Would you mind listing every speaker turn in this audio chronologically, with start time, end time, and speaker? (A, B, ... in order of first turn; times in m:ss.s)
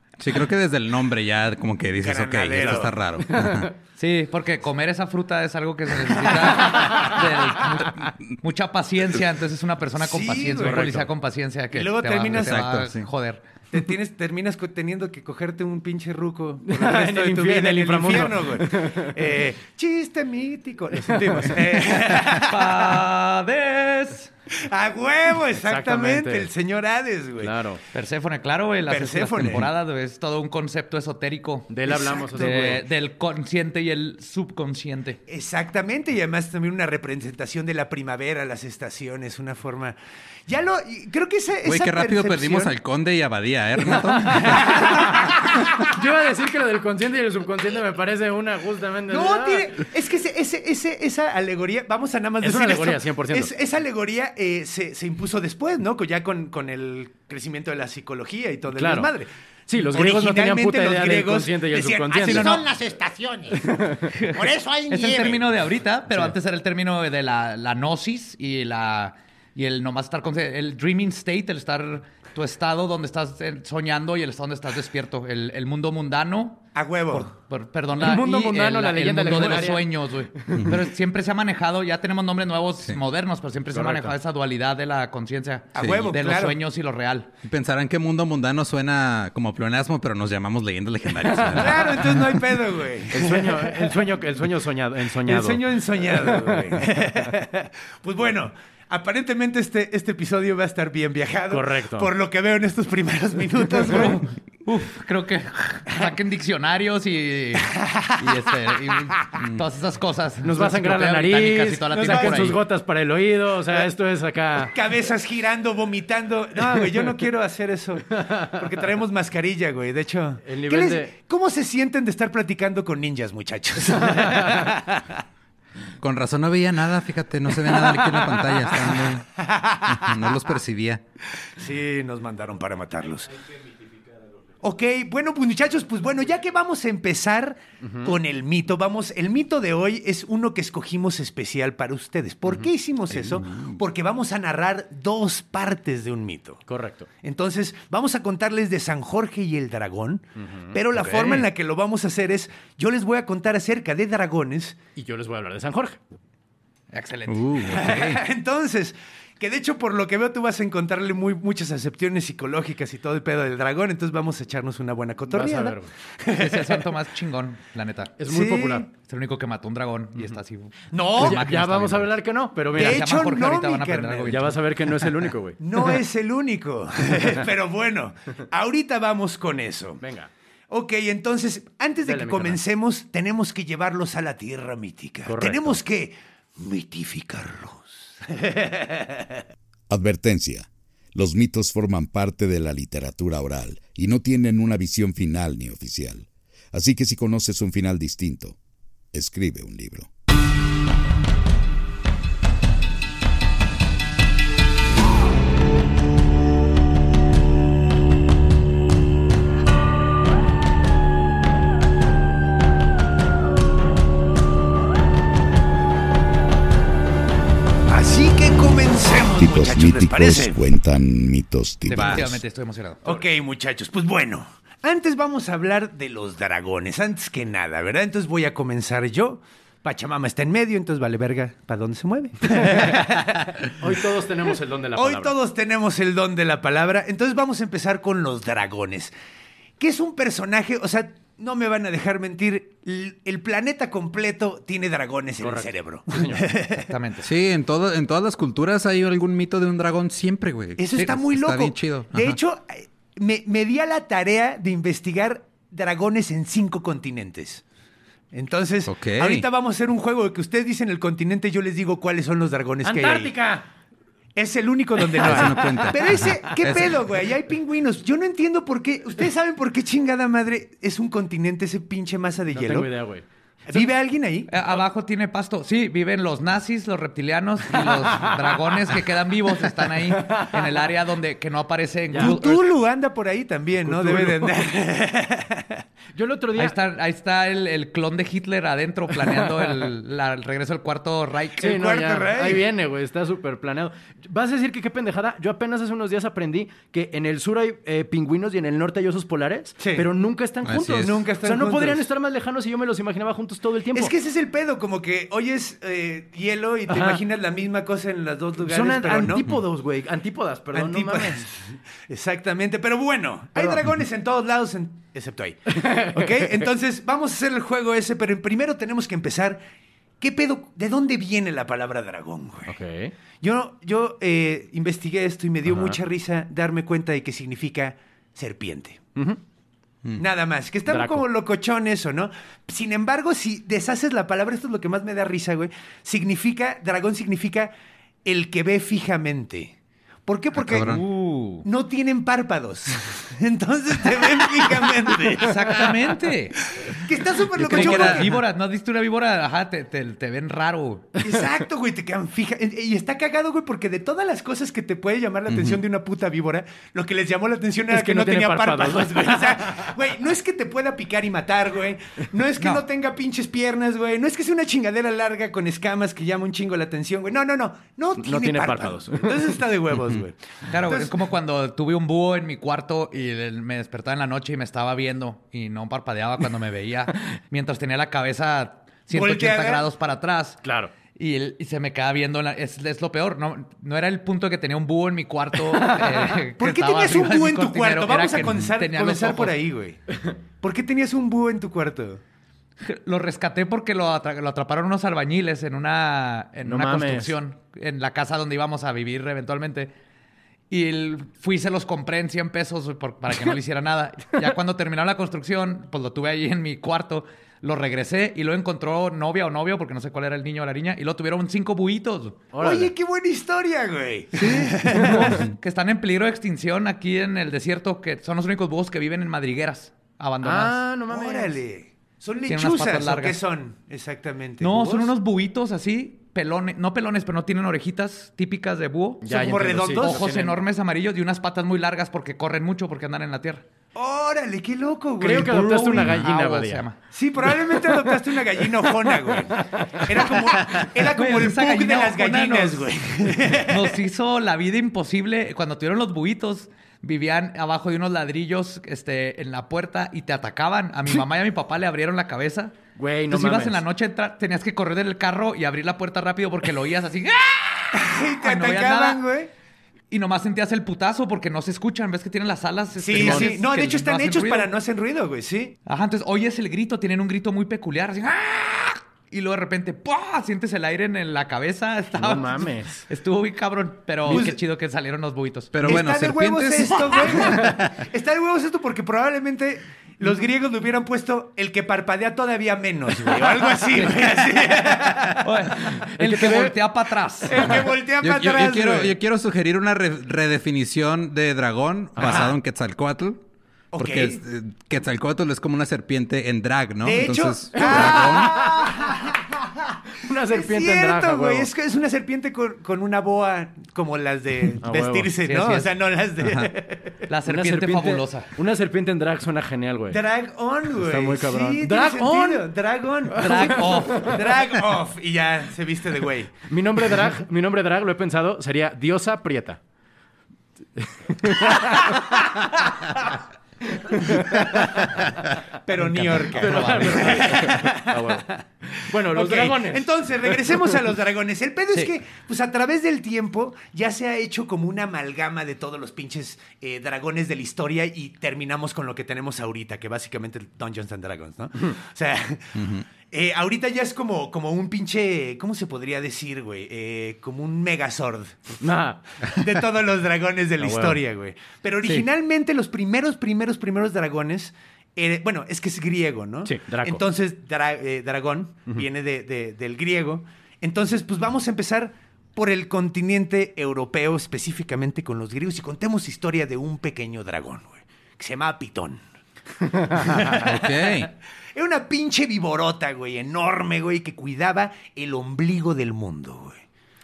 0:00.2-0:03.7 A
0:02.0-0:03.0 B
0:03.3-0:03.7 C
0:04.0-0:13.4 D
0:06.6-0:07.0 C
0:10.0-0:11.0 B
0:10.6-0:11.1 C
0:11.7-0:12.6 B
0:12.3-0:13.1 A
0:13.7-0:23.0 B
0:16.7-0:19.2 C
0:22.4-0:24.3 D
0:24.6-0:27.6 B
0:25.5-0:26.5 C
0:27.4-0:27.8 C
0:27.9-0:31.7 D
0:28.9-0:29.7 B
0:31.7-0:32.8 C
0:31.9-0:32.5 B
0:32.3-0:35.2 D
0:35.3-0:40.0 B
0:40.5-0:42.7 B
0:41.7-0:44.9 A
0:44.5-0:45.2 B
0:45.8-0:49.7 C
0:49.1-1:02.7 B
0:52.4-0:53.5 C
0:58.7-0:59.1 C
0:59.7-1:02.6 C
1:02.2-1:03.6 E
1:03.6-1:04.1 C
1:04.2-1:27.3 D
1:04.3-1:05.4 E
1:16.8-1:17.3 B
1:18.0-1:20.7 C
1:23.7-1:24.2 C
1:25.8-1:26.6 B
1:25.8-1:26.2 A
1:27.4-1:32.1 A
1:31.3-1:32.0 C
1:31.6-1:34.0 B
1:33.1-1:36.8 C
1:35.3-1:44.3 B
1:41.5-1:42.1 C
1:43.8-1:52.6 D
1:47.6-1:48.2 B
1:50.4-1:54.8 C
1:51.9-1:52.5 B
1:54.6-2:05.2 B
1:56.6-1:57.2 C
1:58.2-1:58.6 C
2:00.4-2:01.1 C
2:04.0-2:04.7 C
2:06.0-2:09.3 A
2:09.0-2:10.0 B
2:09.9-2:11.0 A
2:11.6-2:13.3 B
2:14.6-2:26.6 B
2:17.8-2:18.2 C
2:22.5-2:23.7 C
2:26.7-2:27.1 C
2:27.2-2:34.8 B
2:30.4-2:31.5 C
2:35.0-2:36.0 C
2:36.9-2:37.9 D
2:37.3-2:38.2 A
2:37.7-2:46.8 B
2:45.3-2:45.9 C
2:46.4-2:48.2 D
2:48.2-2:48.9 C
2:48.3-2:48.9 B
2:49.0-2:52.2 D
2:50.9-2:51.4 B
2:51.2-2:53.1 C
2:52.7-2:54.4 B
2:52.7-2:54.6 D
2:54.3-2:56.0 C
2:55.6-3:00.0 B
3:00.0-3:00.3 C
3:00.7-3:09.4 B
3:02.0-3:02.6 C
3:05.3-3:05.8 C
3:09.9-3:18.6 F
3:19.1-3:20.1 F
3:37.9-3:40.6 B
3:39.4-3:42.4 F
3:41.9-3:43.0 D
3:41.9-3:42.3 A
3:43.0-3:53.7 B
3:52.6-3:53.0 C
3:53.8-3:55.4 C
3:55.0-3:59.1 B
3:59.8-4:06.9 B
4:05.4-4:06.5 C
4:06.8-4:07.3 D
4:07.2-4:12.4 A
4:10.8-4:17.6 B
4:18.3-4:23.3 B
4:18.9-4:19.5 A
4:22.8-4:23.7 C
4:24.4-4:32.9 B
4:25.0-4:26.7 C
4:25.2-4:26.9 A
4:32.5-4:33.2 C
4:33.7-4:34.5 B
4:34.5-4:42.6 D
4:37.7-4:40.9 C
4:42.1-4:42.4 C
4:42.2-4:45.8 B
4:43.8-4:44.6 C
4:46.2-4:46.8 C
4:46.6-4:51.7 D
4:49.2-4:49.9 C
4:51.6-4:52.7 B
4:51.6-5:04.1 C
4:59.8-5:00.1 B
5:00.6-5:01.1 A
5:01.0-5:02.0 B
5:03.9-5:09.5 B
5:06.9-5:07.2 C
5:08.6-5:11.5 C
5:10.7-5:19.6 B
5:13.6-5:13.8 C
5:15.7-5:16.7 C
5:20.2-5:22.8 B
5:22.7-5:23.1 C
5:23.4-5:29.0 B
5:25.7-5:26.0 C
5:30.2-5:37.7 B
5:30.9-5:31.3 C
5:38.2-5:39.7 B
5:40.3-5:41.0 B
5:40.6-5:41.0 A
5:40.8-5:41.7 D
5:41.6-5:45.9 B
5:45.4-5:46.6 D
5:46.9-5:48.3 B
5:47.6-5:51.2 D
5:47.7-5:48.3 A
5:51.2-6:11.1 B
5:55.5-5:55.8 A
5:57.9-5:59.9 C
6:02.6-6:02.8 D
6:08.2-6:09.6 C
6:10.7-6:20.6 D
6:19.1-6:19.9 B
6:20.6-6:20.9 C
6:21.2-6:29.6 D
6:25.7-6:26.4 C
6:26.6-6:32.2 B
6:32.8-6:39.9 D
6:36.6-6:37.4 C
6:40.7-6:52.4 D
6:52.5-6:52.9 C
6:52.6-6:55.4 B
6:54.6-7:00.8 D
7:00.4-7:01.6 C
7:01.1-7:05.1 B
7:02.5-7:03.4 D
7:04.6-7:09.4 D
7:09.2-7:10.6 C
7:09.3-7:10.3 B
7:10.0-7:13.6 D
7:14.0-7:16.1 B
7:15.2-7:16.8 C
7:15.5-7:17.0 D
7:17.1-7:24.0 B
7:17.5-7:18.3 C
7:19.1-7:20.5 C
7:21.1-7:22.9 D
7:23.7-7:32.7 D
7:33.0-7:33.8 C
7:33.3-7:39.2 D
7:37.9-7:39.5 B
7:40.1-7:44.7 D
7:43.0-7:45.8 B
7:43.1-7:43.5 C
7:45.9-7:55.8 D
7:52.2-7:53.0 C
7:54.3-7:54.6 B
7:55.7-7:57.6 A
7:55.8-8:05.4 B
8:05.4-8:07.6 D
8:06.0-8:06.8 C
8:07.5-8:07.8 C
8:07.5-8:09.2 B
8:08.2-8:13.4 A
8:12.2-8:12.5 C
8:12.2-8:12.5 B
8:13.9-8:14.4 B
8:14.0-8:18.6 A
8:17.0-8:20.0 B
8:17.7-8:19.2 C
8:20.2-8:21.7 C
8:20.5-8:27.2 B
8:24.8-8:25.3 C
8:25.4-8:25.9 D
8:26.4-8:26.7 A
8:27.3-8:28.5 D
8:27.5-8:30.2 C
8:30.1-8:36.6 B
8:30.9-8:32.7 C
8:33.3-8:34.6 C
8:33.4-8:34.3 D
8:36.7-8:39.8 C
8:41.0-8:42.5 C
8:43.9-8:45.1 C
8:44.6-8:44.9 B
8:45.8-8:48.4 B
8:46.0-8:47.5 D
8:46.6-8:51.1 C
8:49.2-9:08.8 B
9:02.8-9:03.0 A
9:08.8-9:09.2 C
9:09.4-9:29.2 B
9:10.8-9:11.2 C
9:16.6-9:17.2 C
9:29.9-9:36.8 B
9:30.6-9:31.3 A